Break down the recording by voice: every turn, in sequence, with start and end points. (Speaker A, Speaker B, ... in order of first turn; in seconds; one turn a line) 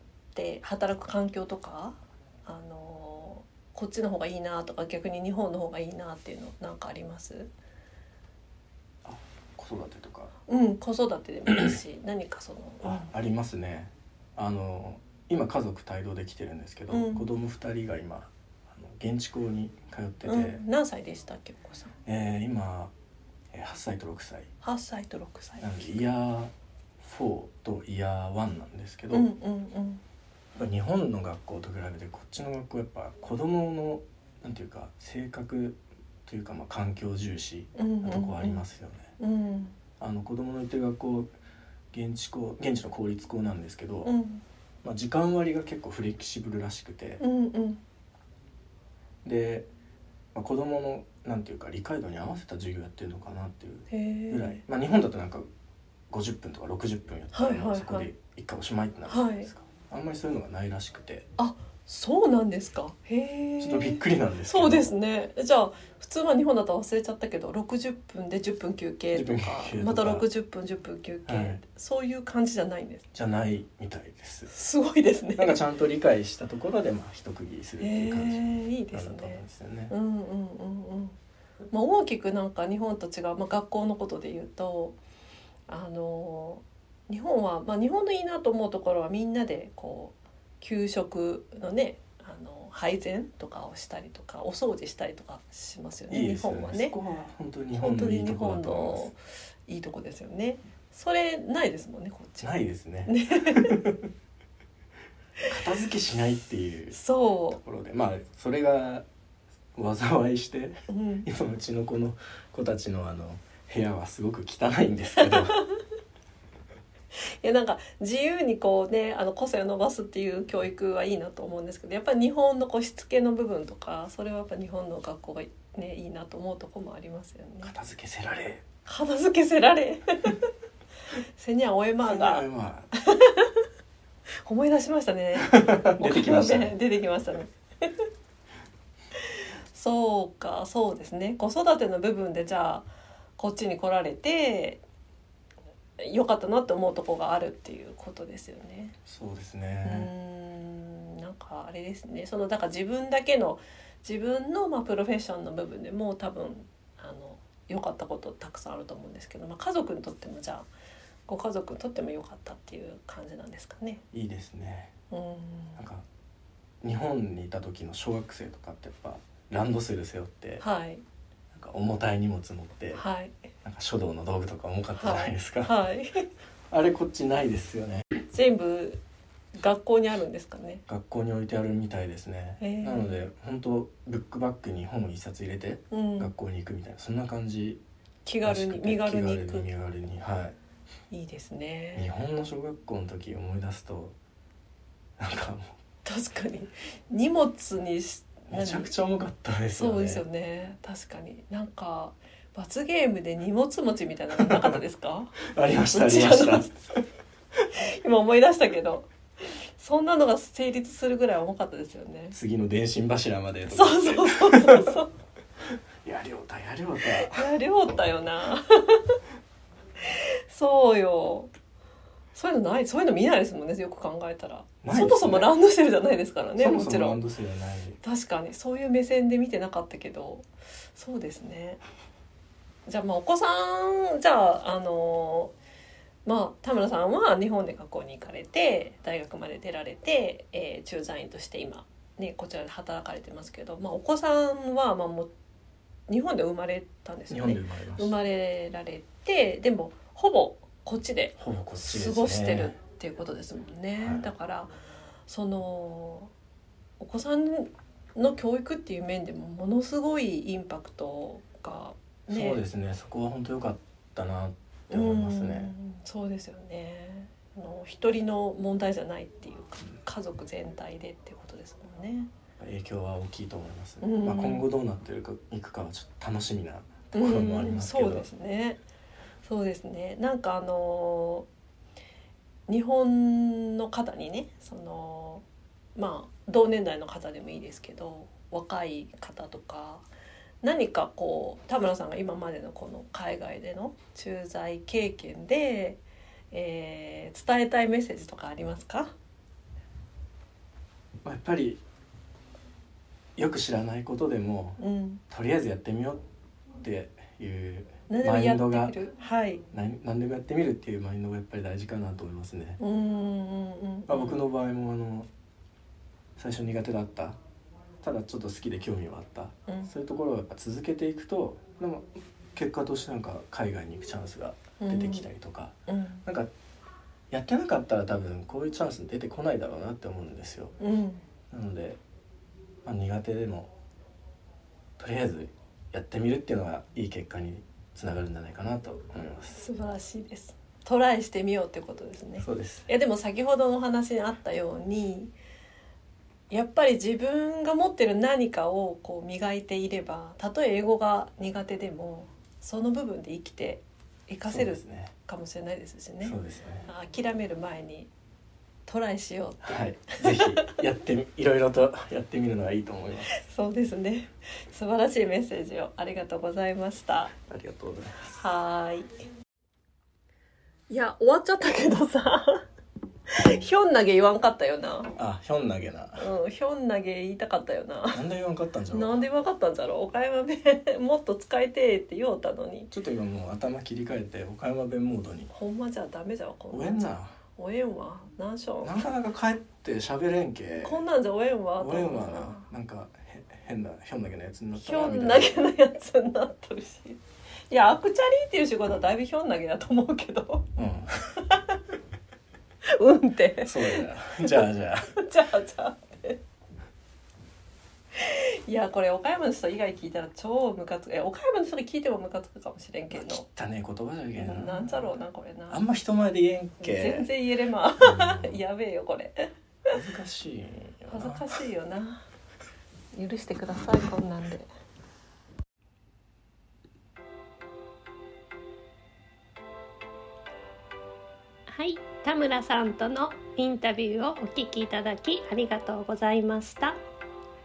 Speaker A: 0.3-7.5
Speaker B: 9.1-10.3
Speaker A: 10.5-13.1
Speaker B: 11.5-11.8
Speaker B: 12.8-20.6
Speaker A: 16.9-17.3
Speaker A: 20.3-21.9
Speaker B: 22.1-22.9
Speaker B: 23.5-24.5
Speaker A: 24.6-26.0
Speaker B: 25.6-29.3
Speaker A: 29.1-30.0
Speaker B: 30.6-39.1
Speaker A: 37.8-38.6
Speaker A: 39.2-39.8
Speaker B: 40.0-41.3
Speaker B: 41.9-44.1
Speaker A: 44.0-44.4
Speaker B: 44.8-47.2
Speaker A: 47.2-47.8
Speaker B: 49.2-49.7
Speaker B: 50.3-55.5
Speaker A: 53.9-54.6
Speaker B: 56.1-61.3
Speaker A: 57.3-58.1
Speaker A: 59.1-59.5
Speaker A: 61.4-73.1
Speaker B: 63.6-64.9
Speaker B: 69.1-70.2
Speaker B: 71.3-71.6
Speaker B: 73.1-74.5
Speaker A: 74.5-75.6
Speaker B: 75.4-79.9
Speaker A: 77.8-81.2
Speaker A: 81.7-85.0
Speaker A: 85.7-97.0
Speaker B: 96.1-99.1
Speaker A: 97.8-102.5
Speaker B: 102.4-104.0
Speaker A: 103.1-103.8
Speaker B: 105.5-107.0
Speaker A: 106.9-107.6
Speaker B: 107.5-109.1
Speaker B: 109.8-115.6
Speaker A: 110.9-111.3
Speaker A: 115.3-115.6
Speaker A: 117.2-127.7
Speaker B: 127.6-128.6
Speaker A: 128.9-130.4
Speaker A: 131.4-133.7
Speaker B: 132.0-132.9
Speaker A: 134.4-138.1
Speaker B: 135.4-136.7
Speaker A: 139.7-142.9
Speaker A: 143.4-144.8
Speaker A: 146.0-148.9
Speaker B: 149.1-150.1
Speaker A: 149.8-160.7
Speaker A: 161.3-164.0
Speaker B: 164.1-164.9
Speaker A: 165.1-165.8
Speaker B: 165.8-166.1
Speaker B: 166.8-170.6
Speaker A: 170.6-171.0
Speaker B: 171.5-173.0
Speaker A: 172.9-173.4
Speaker B: 173.6-175.7
Speaker A: 175.0-176.3
Speaker B: 176.7-178.1
Speaker A: 178.3-179.0
Speaker A: 179.6-180.8
Speaker B: 180.9-187.8
Speaker A: 182.6-183.2
Speaker A: 185.9-186.3
Speaker A: 188.3-189.7
Speaker B: 188.4-190.6
Speaker A: 191.1-192.1
Speaker B: 191.9-194.2
Speaker B: 195.2-195.8
Speaker A: 196.1-198.9
Speaker B: 198.5-200.2
Speaker A: 199.8-206.7
Speaker B: 204.4-204.8
Speaker B: 205.4-207.0
Speaker A: 207.7-212.4
Speaker B: 212.3-215.0
Speaker A: 213.7-215.1
Speaker B: 216.0-217.5
Speaker A: 217.3-219.2
Speaker A: 220.0-221.5
Speaker A: 222.3-227.2
Speaker B: 224.8-225.5
Speaker B: 226.6-228.0
Speaker A: 228.0-231.8
Speaker A: 232.9-235.5
Speaker A: 236.2-245.3
Speaker A: 246.1-254.7
Speaker B: 247.3-248.1
Speaker B: 251.4-252.8
Speaker B: 254.0-254.3
Speaker A: 255.3-256.3
Speaker A: 257.0-262.6
Speaker B: 262.3-265.7
Speaker A: 264.9-272.3
Speaker B: 272.6-278.3
Speaker A: 274.0-274.7
Speaker A: 277.1-278.8
Speaker A: 279.4-281.5
Speaker A: 282.7-290.1
Speaker A: 290.6-296.0
Speaker A: 296.5-299.1
Speaker B: 301.2-301.8
Speaker B: 303.4-304.8
Speaker A: 304.8-305.2
Speaker B: 305.3-306.2
Speaker B: 306.8-309.0
Speaker A: 308.1-309.6
Speaker B: 309.7-312.8
Speaker A: 312.8-314.4
Speaker B: 314.1-315.3
Speaker B: 316.4-317.4
Speaker B: 318.0-326.5
Speaker A: 324.8-325.3
Speaker A: 325.9-326.2
Speaker B: 327.3-330.8
Speaker A: 330.8-331.2
Speaker B: 331.5-332.0
Speaker B: 332.9-333.7
Speaker B: 335.0-339.6
Speaker A: 339.5-345.3
Speaker B: 342.4-342.9
Speaker A: 346.5-358.1
Speaker B: 354.5-355.1
Speaker B: 356.2-356.9
Speaker A: 358.9-360.8
Speaker B: 359.6-363.4
Speaker A: 363.3-367.3
Speaker B: 367.4-368.4
Speaker A: 368.3-369.1
Speaker A: 370.9-372.6
Speaker A: 373.3-375.1
Speaker B: 375.2-376.3
Speaker A: 376.2-378.2
Speaker B: 378.1-379.2
Speaker A: 378.9-382.9
Speaker B: 382.9-385.5
Speaker A: 385.5-389.0
Speaker B: 386.7-387.4
Speaker B: 388.8-391.0
Speaker A: 390.8-392.7
Speaker B: 391.8-395.6
Speaker A: 394.8-397.2
Speaker A: 397.7-400.7
Speaker B: 400.8-401.4
Speaker A: 401.5-401.8
Speaker A: 402.9-406.4
Speaker B: 403.6-405.2
Speaker A: 408.1-413.4
Speaker B: 413.1-415.1
Speaker A: 414.4-415.8
Speaker B: 415.7-417.3
Speaker A: 416.8-419.5
Speaker B: 418.0-418.6
Speaker B: 419.9-421.5
Speaker A: 421.1-422.2
Speaker A: 423.1-424.7
Speaker C: 431.7-437.0